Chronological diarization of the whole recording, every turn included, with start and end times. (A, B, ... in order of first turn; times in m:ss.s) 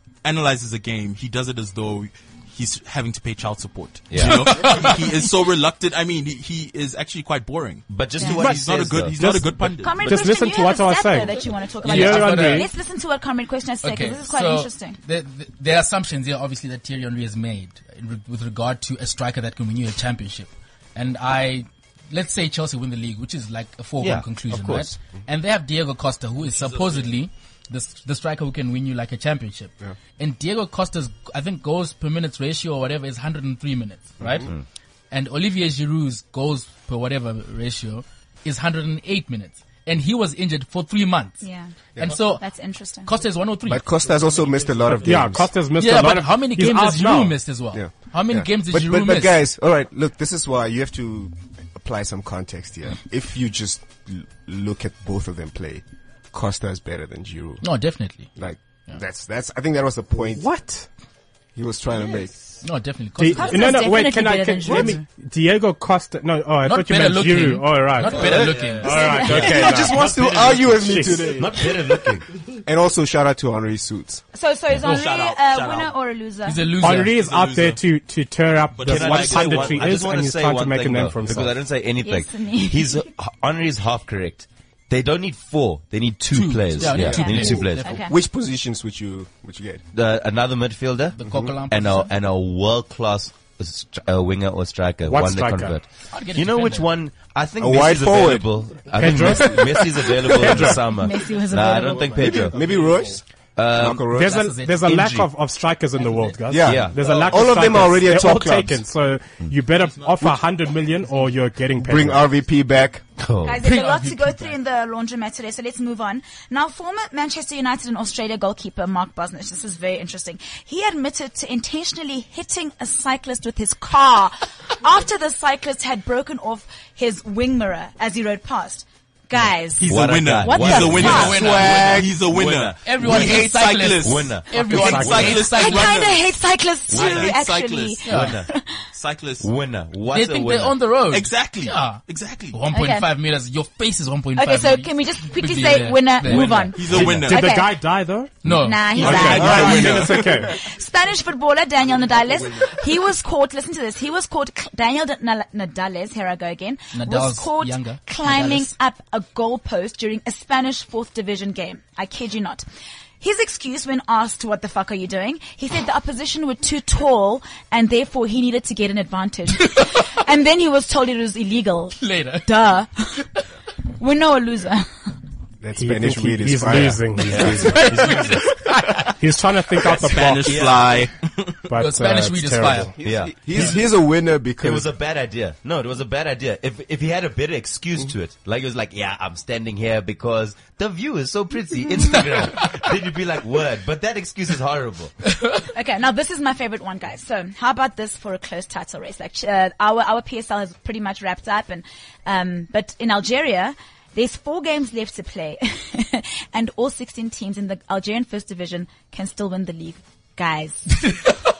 0:00.2-0:10.2 A
0:04.1-0:04.6 B
0:04.2-0:05.0 C
0:07.9-0:09.5 B
0:08.2-0:08.4 D
0:08.2-0:12.7 E
0:09.8-0:15.0 D
0:11.8-0:12.7 C
0:13.8-0:34.5 C
0:24.0-0:24.9 B
0:26.4-0:27.2 A
0:34.2-0:34.5 F
0:35.1-0:41.4 C
0:41.4-0:43.1 D
0:42.0-0:42.4 C
0:43.0-0:43.8 C
0:43.6-0:45.5 F
0:45.0-0:47.4 E
0:45.8-0:49.4 C
0:47.7-0:57.6 F
0:57.6-0:58.3 C
0:58.4-1:00.5 F
1:00.3-1:00.9 E
1:01.6-1:02.3 F
1:02.6-1:03.8 C
1:03.2-1:11.4 E
1:03.3-1:05.0 D
1:06.6-1:09.5 C
1:08.1-1:11.7 F
1:08.3-1:09.1 A
1:08.9-1:10.0 D
1:09.3-1:09.6 B
1:11.2-1:12.2 B
1:12.6-1:14.2 F
1:14.3-1:16.7 D
1:14.8-1:15.9 A
1:16.4-1:17.2 C
1:16.8-1:21.6 E
1:16.9-1:17.8 A
1:18.7-1:20.0 A
1:18.8-1:27.8 B
1:22.0-1:23.0 D
1:26.3-1:28.0 C
1:27.0-1:29.8 F
1:27.1-1:28.1 D
1:29.9-1:42.5 B
1:31.2-1:32.1 C
1:31.3-1:31.5 F
1:35.0-1:35.8 E
1:36.1-1:36.9 C
1:37.6-1:40.7 F
1:39.0-1:40.8 E
1:40.8-1:42.4 D
1:42.1-1:44.3 F
1:42.6-1:43.0 A
1:43.6-1:44.1 B
1:44.0-1:52.2 E
1:44.2-1:45.0 C
1:44.8-1:45.3 B
1:46.0-1:46.4 C
1:46.5-1:48.8 F
1:46.6-1:47.2 B
1:49.8-1:50.4 A
1:51.8-1:53.0 F
1:53.2-1:53.6 B
1:53.4-2:11.5 D
1:53.6-1:54.5 C
2:09.8-2:16.3 A
2:09.8-2:13.4 B
2:10.7-2:12.1 C
2:11.2-2:12.1 F
2:12.8-2:15.9 C
2:14.0-2:15.3 B
2:14.8-2:15.4 E
2:15.4-2:18.7 D
2:16.9-2:18.0 A
2:16.9-2:17.4 B
2:18.0-2:18.3 C
2:18.1-2:18.5 B
2:18.9-2:19.5 A
2:19.4-2:20.8 B
2:20.1-2:27.0 C
2:21.1-2:22.6 A
2:22.7-2:23.1 D
2:24.4-2:27.7 D
2:26.3-2:27.6 A
2:26.8-2:30.6 E
2:28.4-2:29.4 C
2:28.6-2:42.6 D
2:29.0-2:30.4 A
2:29.3-2:30.0 F
2:32.4-2:32.7 A
2:36.9-2:38.7 C
2:43.2-2:53.2 D
2:52.0-2:52.5 C
2:54.0-2:55.1 D
2:55.6-2:58.2 F
2:55.8-2:58.4 E
2:57.3-2:58.9 C
2:59.2-3:00.7 E
2:59.8-3:01.7 A
3:00.4-3:00.9 B
3:01.7-3:02.9 E
3:01.8-3:02.9 C
3:03.0-3:04.9 F
3:03.0-3:03.6 B
3:04.6-3:15.1 B
3:15.7-3:31.2 D